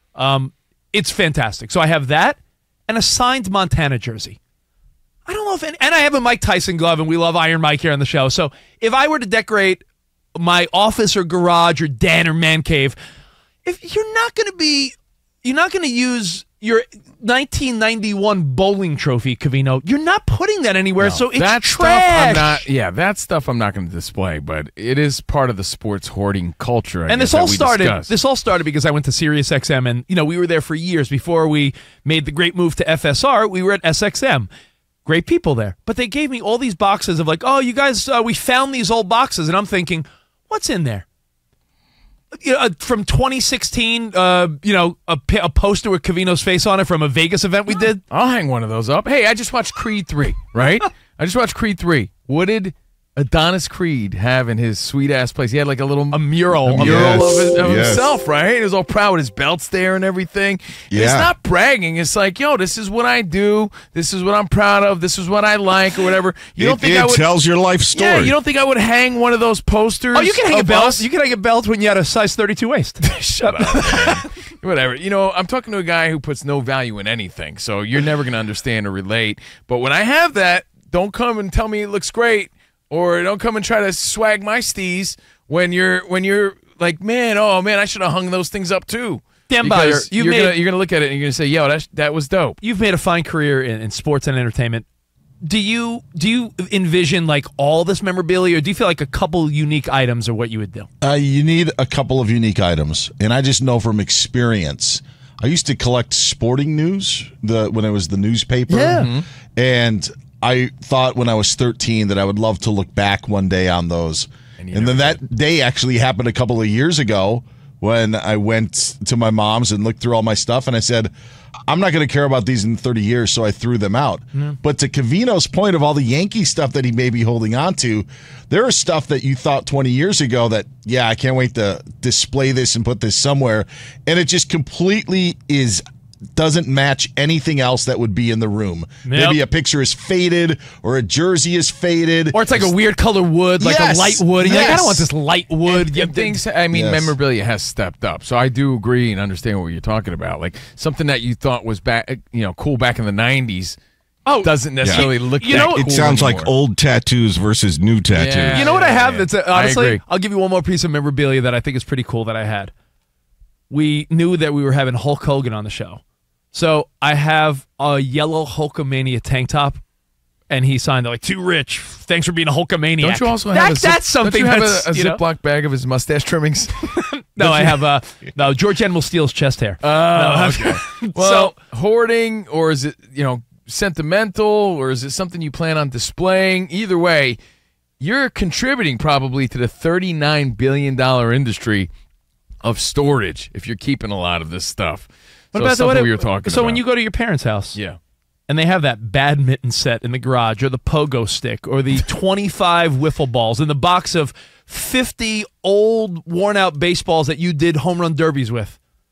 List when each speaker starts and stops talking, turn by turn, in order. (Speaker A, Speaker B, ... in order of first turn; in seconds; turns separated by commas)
Speaker A: 0.1-4.4, Speaker A: 5.3-9.8, Speaker A: 10.3-12.9, Speaker A: 13.6-22.6, Speaker B: 21.0-28.1, Speaker A: 27.1-34.5, Speaker A: 35.0-41.0, Speaker A: 42.3-48.0, Speaker B: 48.1-67.2, Speaker A: 56.1-57.2, Speaker C: 56.8-58.2, Speaker C: 60.9-61.3, Speaker C: 66.6-68.3, Speaker B: 67.9-71.0, Speaker A: 70.1-74.3, Speaker B: 73.0-92.6, Speaker A: 89.5-90.5, Speaker A: 92.6-94.8, Speaker A: 95.4-100.9, Speaker D: 101.0-121.1, Speaker A: 108.7-109.1, Speaker B: 114.6-115.2, Speaker D: 121.7-135.8, Speaker D: 136.3-142.7, Speaker A: 139.0-139.4, Speaker A: 142.3-146.4, Speaker D: 143.6-145.1, Speaker B: 144.4-144.8, Speaker B: 145.7-153.8, Speaker D: 146.7-147.2, Speaker A: 154.2-155.9, Speaker B: 154.4-156.5, Speaker C: 154.8-158.7, Speaker B: 158.1-160.0, Speaker A: 158.5-162.7, Speaker A: 163.7-166.0, Speaker A: 166.5-169.8, Speaker A: 170.5-175.2, Speaker B: 173.0-177.8, Speaker A: 176.9-181.6, Speaker B: 179.8-187.4, Speaker B: 188.0-191.9, Speaker B: 192.6-196.8, Speaker A: 195.5-197.8, Speaker A: 198.5-208.8